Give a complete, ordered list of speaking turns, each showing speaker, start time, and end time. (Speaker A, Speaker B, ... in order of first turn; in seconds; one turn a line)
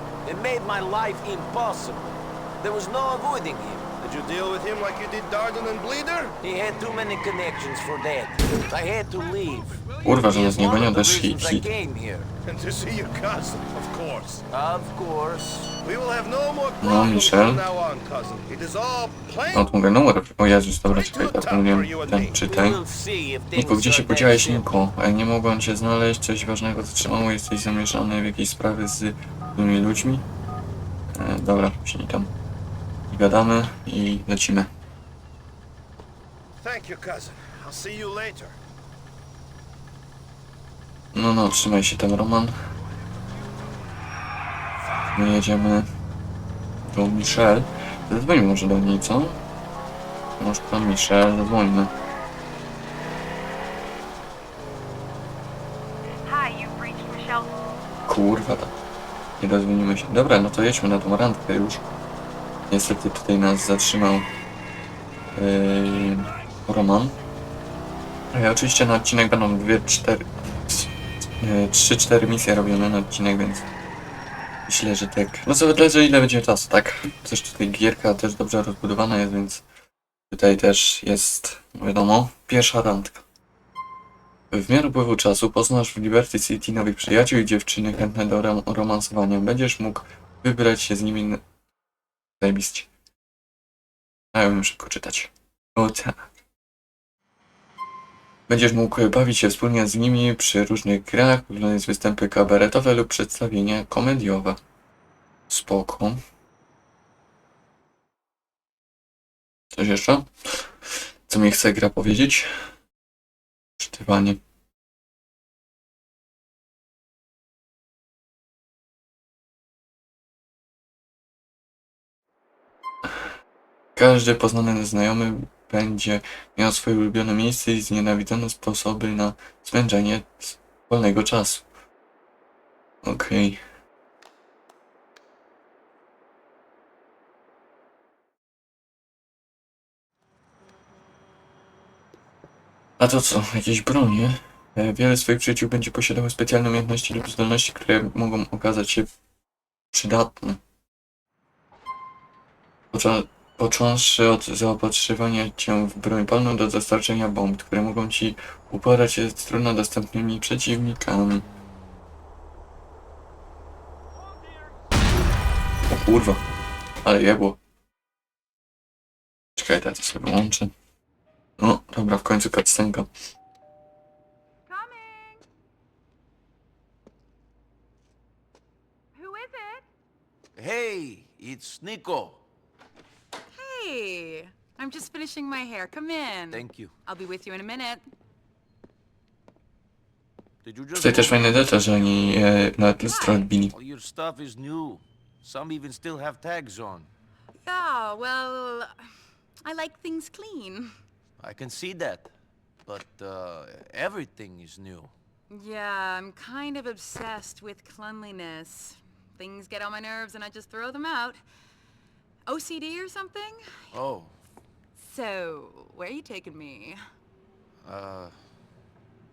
Speaker A: 0.2-3.9
Speaker B: 4.0-6.3
Speaker A: 6.4-12.3
Speaker C: 10.0-11.7
Speaker B: 12.4-14.4
Speaker A: 14.5-15.7
Speaker B: 15.8-19.7
Speaker C: 16.8-17.6
Speaker C: 19.5-22.8
Speaker B: 20.9-22.4
Speaker A: 22.4-24.7
Speaker C: 23.5-30.2
Speaker C: 31.1-32.3
Speaker C: 33.1-34.7
Speaker B: 36.6-38.6
Speaker C: 41.1-42.5
Speaker C: 45.1-45.9
Speaker C: 46.9-49.4
Speaker C: 50.4-51.9
Speaker D: 56.2-57.5
Speaker C: 58.1-58.7
Speaker C: 59.4-61.8
Speaker C: 62.7-64.3
Speaker C: 65.4-67.2
Speaker C: 68.3-70.9
Speaker C: 71.4-73.7
Speaker C: 74.7-79.6
Speaker C: 80.3-83.2
Speaker C: 84.5-91.4
Speaker C: 92.4-92.9
Speaker C: 94.3-96.3
Speaker C: 98.5-104.6
Speaker C: 105.5-106.2
Speaker C: 109.7-110.3
Speaker C: 111.3-112.5
Speaker C: 113.8-114.4
Speaker C: 124.0-131.6
Speaker C: 133.0-133.6
Speaker C: 143.0-149.1
Speaker C: 149.9-150.6
Speaker C: 152.9-161.4
Speaker C: 165.9-166.4
Speaker C: 167.0-167.6
Speaker C: 169.6-170.7
Speaker C: 171.6-173.1
Speaker D: 174.7-175.4
Speaker D: 179.1-179.9
Speaker A: 180.6-182.4
Speaker D: 183.5-188.0
Speaker A: 186.5-186.9
Speaker A: 190.6-191.9
Speaker C: 190.9-193.7
Speaker D: 193.0-193.4
Speaker A: 193.7-197.1
Speaker D: 197.6-198.9
Speaker D: 199.6-200.9
Speaker A: 201.4-202.3
Speaker A: 202.9-205.1
Speaker D: 205.5-211.4
Speaker D: 212.5-213.6
Speaker A: 213.9-214.3
Speaker D: 214.9-217.0
Speaker A: 217.8-218.3